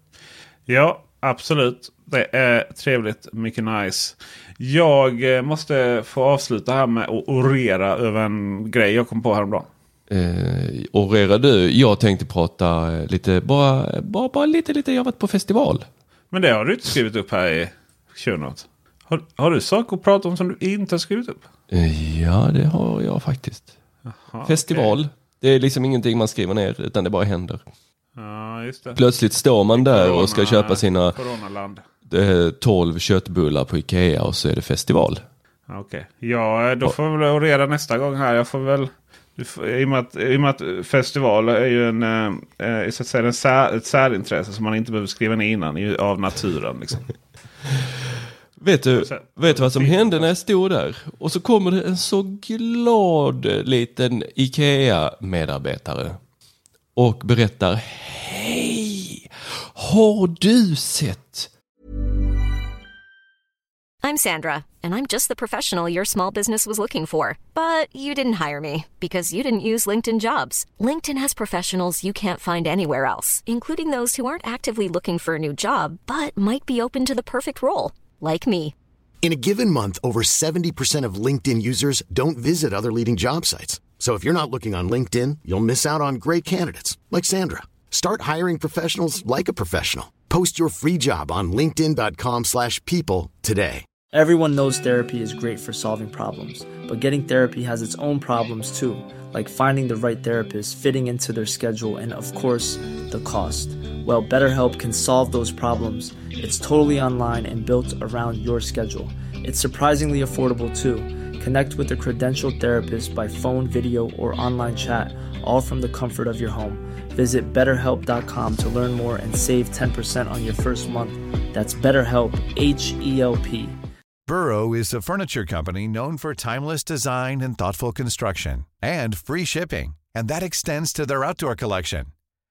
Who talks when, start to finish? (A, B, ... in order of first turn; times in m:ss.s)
0:00.7-0:09.7 A
0:10.1-0:15.9 B
0:16.3-0:21.4 A
0:21.7-0:23.7 B
0:24.1-0:25.0 A
0:24.4-0:27.6 B
0:28.2-0:29.0 A
0:28.9-0:31.2 B
0:29.7-0:31.8 A
0:32.0-0:35.2 B
0:35.7-0:47.1 A
0:48.6-0:56.2 B
0:48.9-0:50.3 A
0:56.9-1:01.5 B
1:04.0-1:18.7 C
1:19.2-1:33.8 D
1:34.1-2:03.8 E
2:04.2-2:12.1 F